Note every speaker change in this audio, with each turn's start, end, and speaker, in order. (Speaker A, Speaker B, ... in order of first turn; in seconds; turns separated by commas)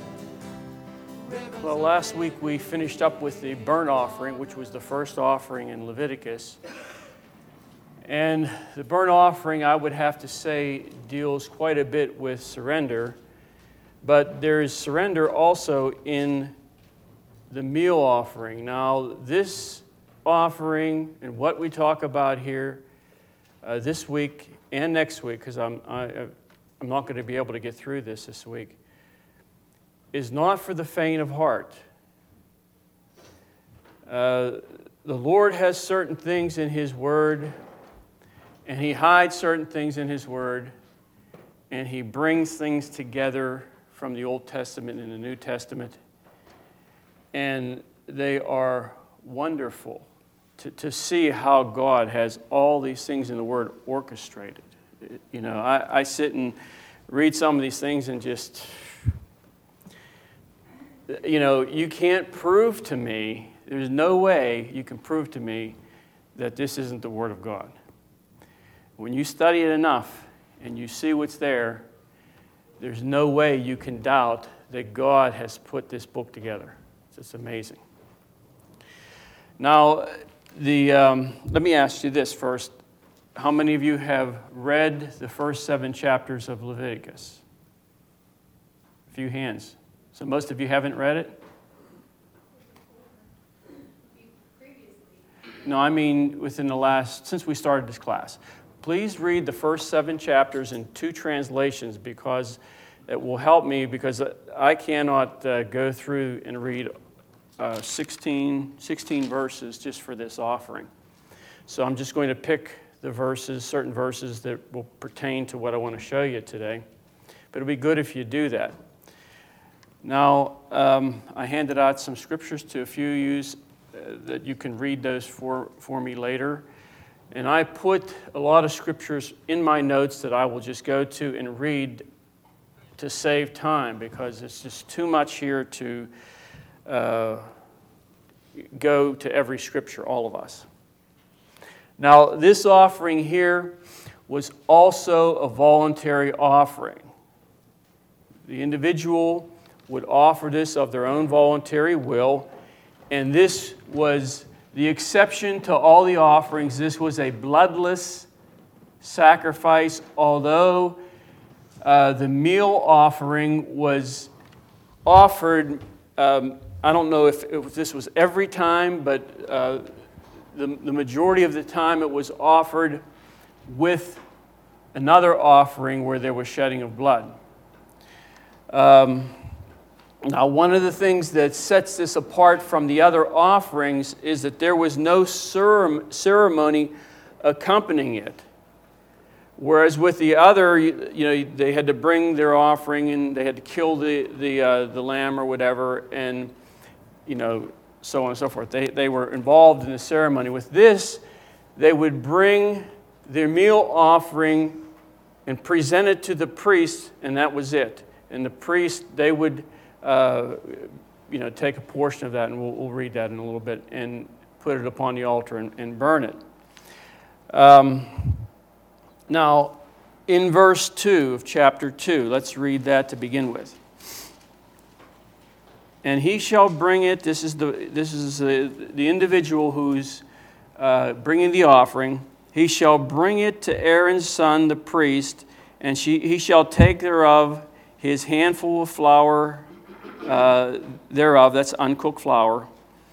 Speaker A: 1.5-6.6, Speaker A: 8.0-13.2, Speaker A: 14.0-16.5, Speaker A: 17.5-22.8, Speaker A: 23.6-28.8, Speaker A: 30.1-31.8, Speaker A: 34.1-37.5, Speaker A: 38.6-40.7, Speaker A: 41.7-46.0, Speaker A: 47.3-50.1, Speaker A: 50.6-56.5, Speaker A: 57.1-58.7, Speaker A: 61.1-65.8, Speaker A: 66.3-67.7, Speaker A: 69.0-71.8, Speaker A: 72.8-77.8, Speaker A: 79.6-82.7, Speaker A: 83.3-87.4, Speaker A: 89.1-91.3, Speaker A: 95.6-106.9, Speaker A: 107.6-110.9, Speaker A: 111.7-116.8, Speaker A: 117.5-118.8, Speaker A: 120.0-126.7, Speaker A: 127.3-132.0, Speaker A: 133.0-136.1, Speaker A: 136.8-137.4, Speaker A: 138.6-140.7, Speaker A: 142.0-147.1, Speaker A: 148.4-152.5, Speaker A: 153.1-158.3, Speaker A: 159.0-161.0, Speaker A: 161.8-164.3, Speaker A: 165.0-169.8, Speaker A: 170.5-173.0, Speaker A: 173.7-174.2, Speaker A: 174.9-177.3, Speaker A: 178.7-179.3, Speaker A: 180.2-188.4, Speaker A: 189.6-196.5, Speaker A: 197.2-201.2, Speaker A: 201.8-204.8, Speaker A: 205.4-216.3, Speaker A: 217.5-218.4, Speaker A: 219.3-223.8, Speaker A: 226.0-230.2, Speaker A: 230.8-239.7, Speaker A: 240.2-242.7